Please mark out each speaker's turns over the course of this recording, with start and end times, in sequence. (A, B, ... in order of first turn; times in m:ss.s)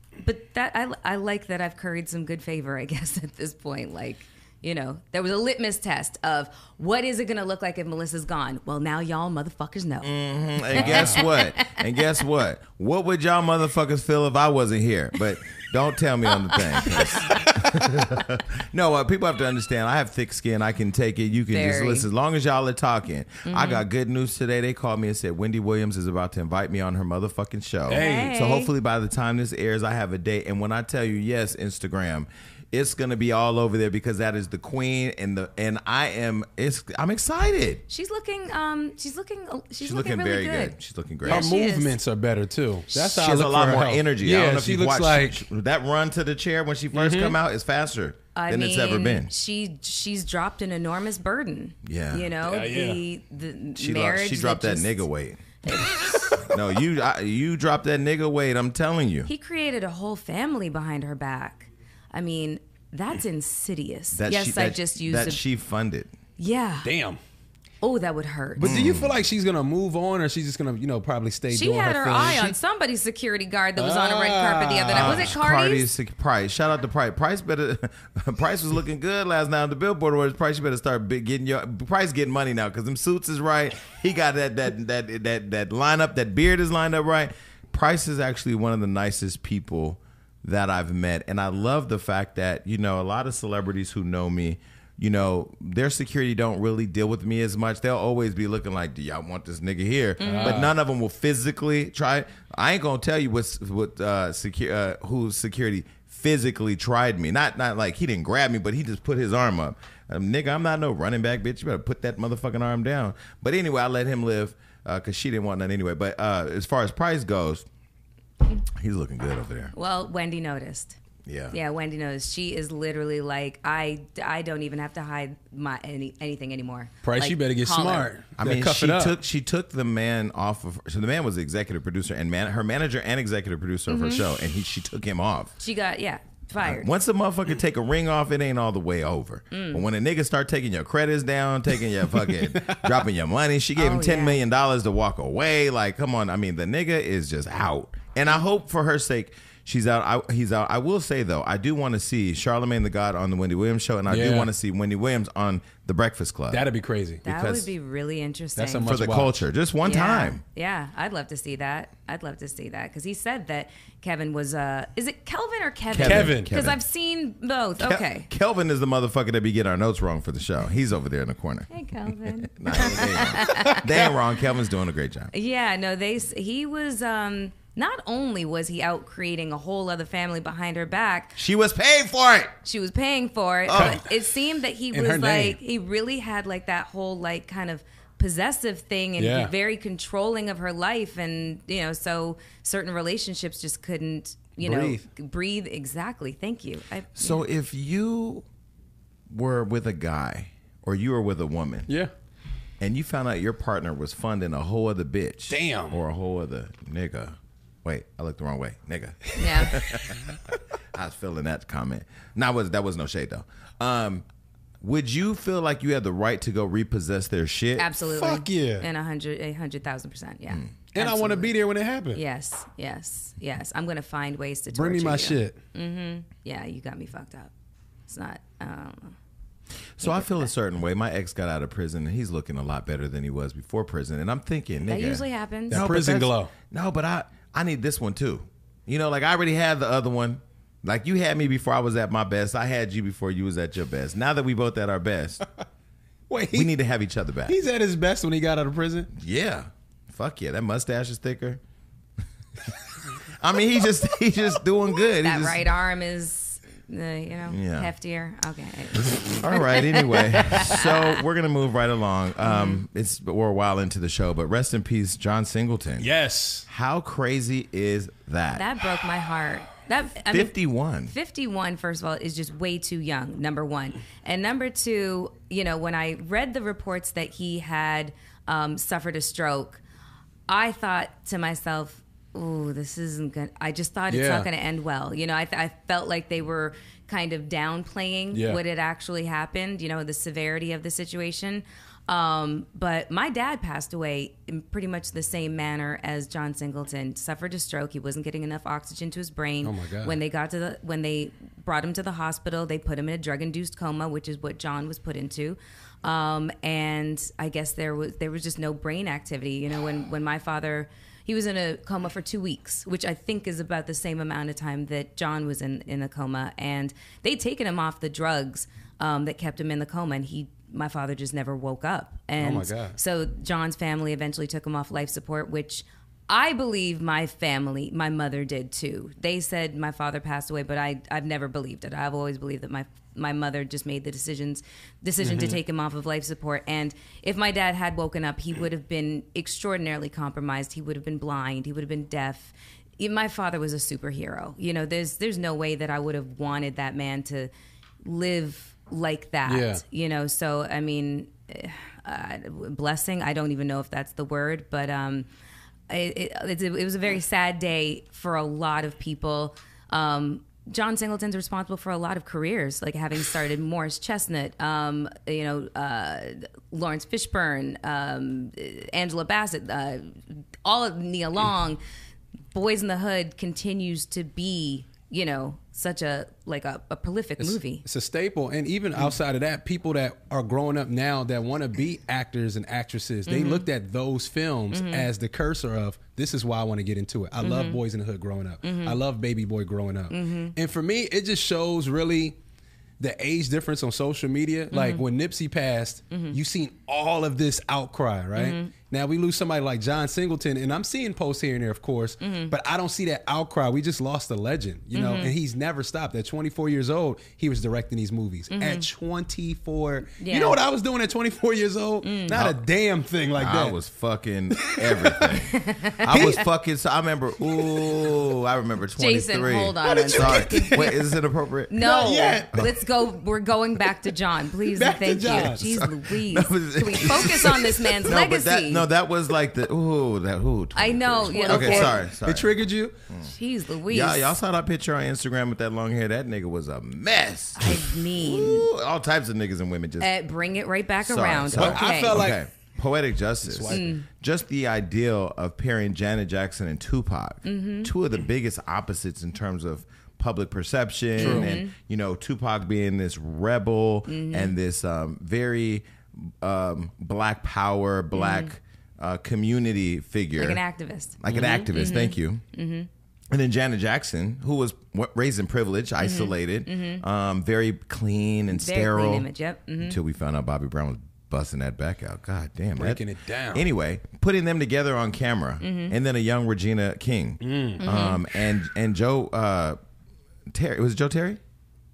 0:00.2-0:10.1 A
0:10.0-0:37.8 B
0:10.7-0:11.8 A
0:10.7-0:11.2 C
0:16.4-0:17.3 A
0:21.5-0:22.1 A
0:23.4-0:23.8 A
0:27.9-0:28.3 C
0:27.9-0:28.7 A
0:37.9-0:42.0 A
0:39.8-0:41.5 B
0:41.2-0:45.4 C
0:43.0-0:49.3 B
0:46.9-0:47.4 C
0:48.3-0:55.0 A
0:51.8-0:52.3 B
0:52.4-0:53.0 C
0:53.8-0:55.4 B
0:55.7-0:56.4 A
0:56.5-0:59.3 B
0:59.2-1:05.4 A
1:04.1-1:06.1 B
1:06.4-1:06.9 A
1:06.8-1:07.2 C
1:07.8-1:08.8 A
1:08.6-1:12.5 C
1:08.6-1:09.2 B
1:11.5-1:15.9 A
1:13.8-1:15.3 C
1:14.9-1:57.6 B
1:40.2-1:40.6 A
1:40.2-1:40.7 C
1:58.7-1:59.7 B
1:59.7-2:01.0 A
2:01.2-2:01.6 B
2:01.5-2:08.1 A
2:07.0-2:09.2 C
2:08.4-2:15.5 B
2:13.9-2:14.2 A
2:15.6-2:16.9 A
2:16.6-2:36.6 B
2:19.5-2:19.8 A
2:23.8-2:24.4 A
2:34.1-2:34.5 C
2:36.5-2:37.2 C
2:37.2-2:37.7 B
2:37.2-2:39.0 A
2:38.6-2:39.4 C
2:38.8-2:40.4 B
2:39.8-2:48.3 A
2:45.9-2:46.8 B
2:46.0-2:46.5 C
2:47.8-2:55.3 B
2:51.7-2:53.8 A
2:53.4-2:54.1 C
2:55.3-3:01.4 A
3:01.4-3:02.6 B
3:02.6-3:17.4 A
3:03.6-3:04.0 B
3:03.7-3:04.1 C
3:04.9-3:05.6 C
3:09.2-3:09.5 C
3:14.6-3:15.0 C
3:17.2-3:18.4 B
3:19.3-3:21.9 B
3:22.8-3:30.4 B
3:25.5-3:26.0 C
3:29.4-3:29.8 A
3:30.9-3:34.2 B
3:34.8-3:37.9 B
3:37.8-3:41.5 A
3:38.1-3:38.9 C
3:40.9-3:42.2 C
3:42.1-3:47.5 A
3:44.7-3:45.6 C
3:48.1-3:49.2 A
3:50.0-4:05.4 B
3:50.0-3:50.5 A
3:54.9-3:55.8 A
3:55.7-3:56.5 C
4:06.3-4:06.7 C
4:06.5-4:07.6 B
4:07.4-4:09.1 C
4:09.1-4:11.6 B
4:12.6-4:15.6 B
4:14.9-4:21.2 A
4:17.5-4:17.9 B
4:19.4-4:26.1 B
4:22.4-4:22.8 A
4:26.0-4:26.6 C
4:26.7-4:28.6 B
4:28.5-4:30.5 A
4:30.3-4:31.1 B
4:31.1-4:39.8 A
4:40.5-5:47.5 A
4:44.1-4:44.5 C
4:48.3-4:48.6 C
4:59.6-5:00.2 C
5:22.4-5:23.0 C
5:35.2-5:35.6 C
5:48.0-5:55.2 A
5:49.4-5:49.8 C
5:55.9-6:11.8 A
6:12.5-6:17.8 A
6:17.4-6:32.4 C
6:23.3-6:23.7 A
6:24.7-6:25.1 A
6:27.4-6:27.8 A
6:28.6-6:29.0 A
6:30.1-6:30.5 A
6:33.0-6:53.8 C
6:34.7-6:35.0 A
6:36.1-6:36.4 A
6:38.4-6:38.7 A
6:42.2-6:42.5 A
6:44.9-6:45.3 A
6:48.5-6:48.9 A
6:50.2-6:50.6 A
6:52.0-6:52.4 A
6:52.3-6:52.6 B
6:53.4-7:02.7 B
6:54.5-6:55.4 C
6:55.5-6:56.4 A
6:56.1-6:56.4 C
6:58.9-7:01.0 A
6:59.8-7:01.0 C
7:01.7-7:08.8 A
7:01.8-7:02.7 C
7:04.6-7:05.6 C
7:05.5-7:12.5 B
7:10.7-7:12.0 A
7:11.3-7:13.0 C
7:13.2-7:14.4 A
7:13.9-7:20.1 B
7:17.6-7:18.7 A
7:20.0-7:22.3 A
7:21.0-7:40.6 B
7:21.5-7:22.4 C
7:23.4-7:23.9 C
7:23.7-7:24.0 A
7:27.4-7:27.9 A
7:31.2-7:31.7 A
7:31.2-7:31.5 C
7:34.1-7:34.5 A
7:38.1-7:38.5 A
7:40.4-7:41.2 A
7:41.2-7:42.4 B
7:41.3-7:41.7 C
7:41.7-7:42.9 A
7:43.3-7:49.3 B
7:46.0-7:47.0 A
7:48.5-7:50.0 A
7:49.8-7:59.8 B
7:52.8-7:53.7 C
7:55.6-7:55.9 A
7:57.4-7:57.8 C
7:57.8-7:58.2 A
8:00.5-8:01.4 B